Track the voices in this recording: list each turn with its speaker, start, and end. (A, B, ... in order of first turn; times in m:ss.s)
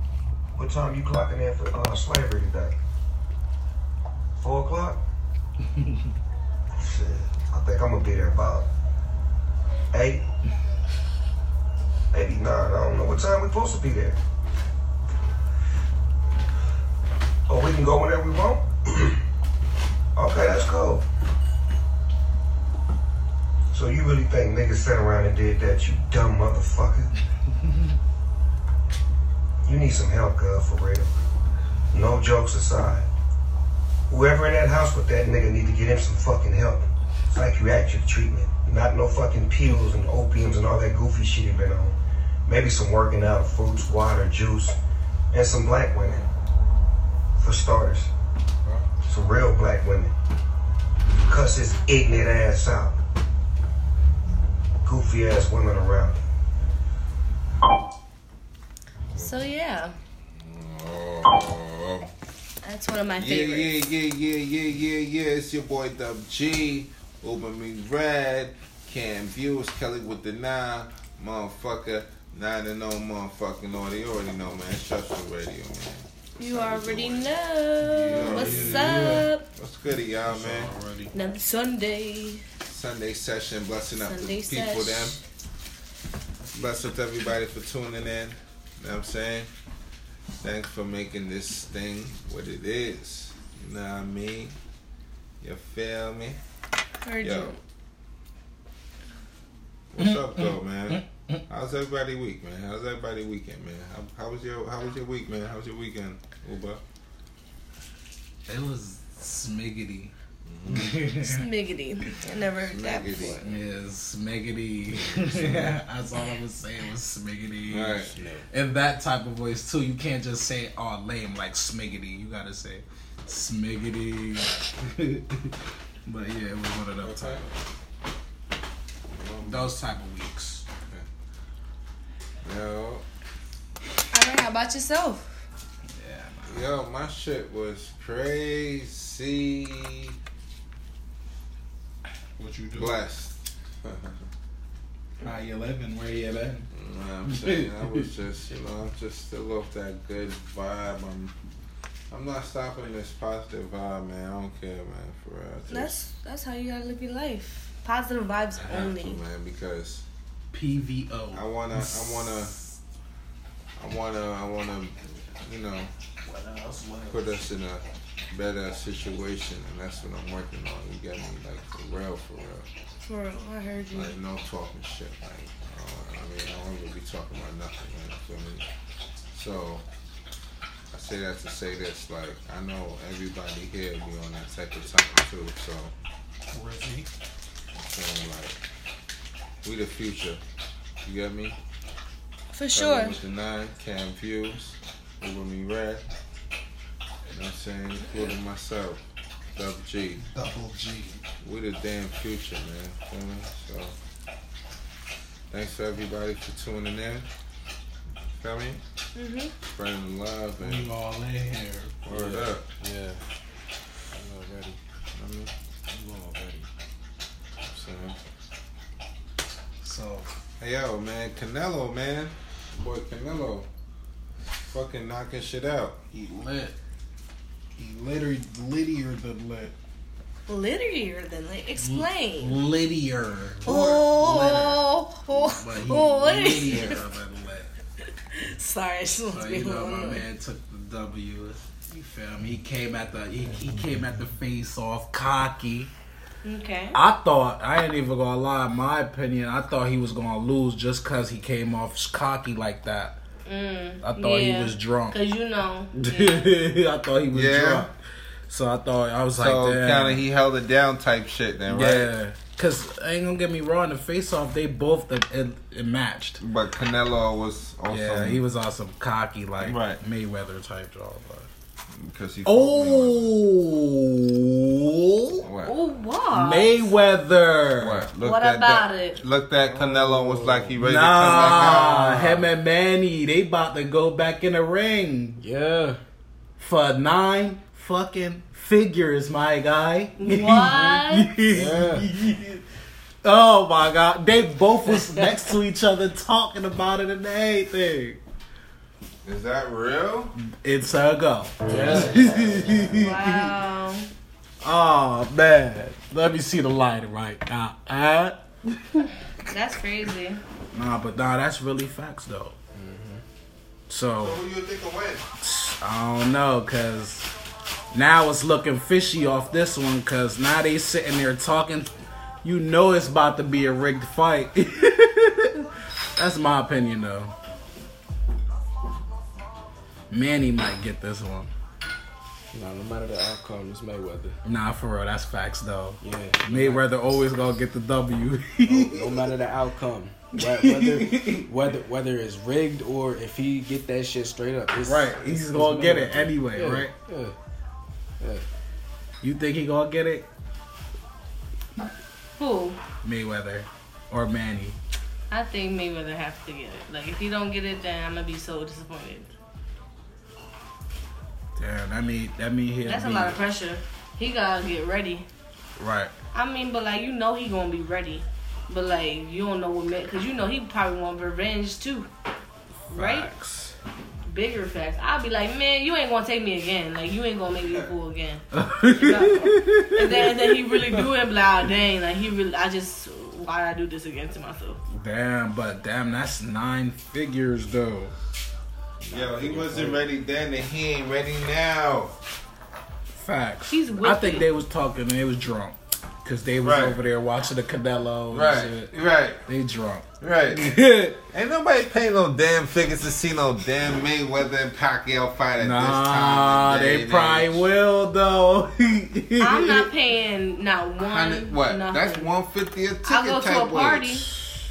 0:00.6-0:02.7 A
0:04.4-0:05.0 A
0:06.8-0:08.7 A
0:09.9-0:10.2 A
0:12.1-0:14.2 A
0:17.5-0:19.2 A
0:20.2-0:21.0 A
0:23.7-0:27.1 A
0:29.6-0:31.1 A
0:31.9-0:33.1 A
0:34.1-0:44.8 A
0:45.3-0:46.3 A
0:47.4-0:48.1 A
0:49.1-0:50.1 A
0:51.2-0:53.0 A
0:54.8-0:56.2 A
0:59.2-1:00.0 B
1:00.3-1:02.1 C
1:02.6-1:03.7 B
1:03.2-1:17.3 C
1:16.4-1:19.5 B
1:17.8-1:19.3 D
1:18.1-1:20.7 C
1:20.3-1:21.1 D
1:21.1-1:22.4 B
1:22.6-1:25.2 C
1:24.0-1:25.2 B
1:26.5-1:29.5 C
1:30.4-1:34.6 C
1:35.4-1:36.4 C
1:37.0-1:37.6 B
1:37.2-1:37.5 C
1:39.9-1:46.8 C
1:48.5-1:50.1 D
1:50.5-1:51.1 C
1:50.7-1:51.4 D
1:51.2-1:53.4 B
1:52.6-1:53.6 C
1:53.4-2:05.6 D
1:55.1-1:55.7 C
1:57.7-1:58.1 C
1:58.1-1:58.5 E
2:06.1-2:07.6 D
2:07.0-2:07.4 C
2:09.1-2:09.7 C
2:09.4-2:10.6 D
2:12.4-2:13.0 C
2:14.1-2:15.4 B
2:16.0-2:16.7 D
2:16.5-2:20.1 C
2:22.4-2:23.0 D
2:22.8-2:24.3 C
2:25.2-2:26.7 D
2:26.7-2:31.3 C
2:27.3-2:28.0 D
2:32.1-2:36.1 C
2:35.7-2:39.2 B
2:38.6-2:40.0 C
2:40.5-2:42.7 D
2:41.3-2:42.6 C
2:43.8-2:45.9 C
2:46.3-2:47.1 D
2:47.1-2:52.7 C
2:53.0-2:54.2 B
2:53.9-2:58.7 C
2:59.3-2:59.8 C
3:00.9-3:05.9 C
3:06.5-3:07.1 D
3:07.9-3:08.6 C
3:09.6-3:10.4 C
3:11.0-3:11.6 C
3:12.5-3:13.2 B
3:12.7-3:16.0 C
3:17.3-3:19.0 C
3:19.6-3:20.2 C
3:20.3-3:21.2 D
3:21.4-3:23.9 C
3:25.5-3:27.3 C
3:28.3-3:28.8 C
3:29.2-3:29.5 B
3:29.7-3:30.9 C
3:30.6-3:31.9 D
3:32.1-3:32.6 C
3:32.1-3:33.2 E
3:34.1-3:34.8 E
3:35.2-3:35.5 C
3:35.9-3:36.7 E
3:37.7-3:38.2 C
3:39.8-3:40.3 D
3:40.6-3:43.7 C
3:44.7-3:46.0 C
3:46.1-3:46.8 D
3:47.8-3:49.7 D
3:50.5-3:52.6 B
3:51.8-3:57.7 D
3:53.6-3:54.0 C
3:53.6-3:57.0 B
3:56.7-3:57.0 C
3:58.3-4:00.2 B
3:59.3-4:05.9 D
4:06.4-4:07.0 B
4:06.9-4:13.2 D
4:13.5-4:16.5 B
4:14.0-4:15.2 D
4:15.9-4:17.9 D
4:17.3-4:17.9 C
4:18.5-4:20.2 D
4:19.4-4:22.1 C
4:21.7-4:26.4 D
4:26.4-4:28.4 C
4:27.9-4:31.5 D
4:29.6-4:30.0 C
4:31.9-4:33.3 C
4:32.4-4:35.5 D
4:35.4-4:35.8 C
4:35.6-4:36.9 B
4:36.3-4:38.0 D
4:37.8-4:42.2 C
4:38.2-4:39.2 B
4:39.7-4:42.4 E
4:40.8-4:45.4 D
4:45.4-4:46.0 E
4:46.6-4:52.6 D
4:50.2-4:51.4 B
4:51.5-4:52.0 C
4:53.2-4:58.2 D
4:59.2-5:00.4 C
5:00.4-5:03.5 D
5:01.7-5:02.9 E
5:02.9-5:04.1 B
5:04.6-5:09.1 D
5:09.5-5:10.4 B
5:10.7-5:12.6 D
5:12.7-5:13.2 E
5:13.9-5:14.4 D
5:14.2-5:15.3 C
5:15.4-5:17.3 D
5:17.9-5:27.3 D
5:30.1-5:31.5 D
5:32.5-5:34.4 E
5:34.4-5:39.3 D
5:36.0-5:37.1 E
5:38.6-5:47.4 E
5:40.4-5:41.5 D
5:44.8-5:46.9 D
5:48.2-5:48.4 E
5:49.2-5:50.3 D
5:52.4-5:52.8 B
5:53.0-5:54.8 D
5:55.3-5:59.3 B
6:01.6-6:03.4 D
6:02.9-6:05.3 B
6:05.8-6:06.1 D
6:06.3-6:12.1 B
6:12.9-6:13.7 D
6:12.9-6:13.3 B
6:14.3-6:24.8 B
6:18.5-6:20.5 D
6:24.9-6:28.2 D
6:29.0-6:30.0 E
6:29.1-6:32.2 C
6:29.6-6:30.0 D
6:33.1-6:41.2 D
6:33.7-6:34.5 B
6:36.6-6:37.0 C
6:38.3-6:39.4 C
6:40.2-6:40.8 C
6:41.3-6:47.7 C
6:45.6-6:49.9 D
6:49.4-6:52.3 B
6:51.1-6:54.2 C
6:53.0-6:54.3 B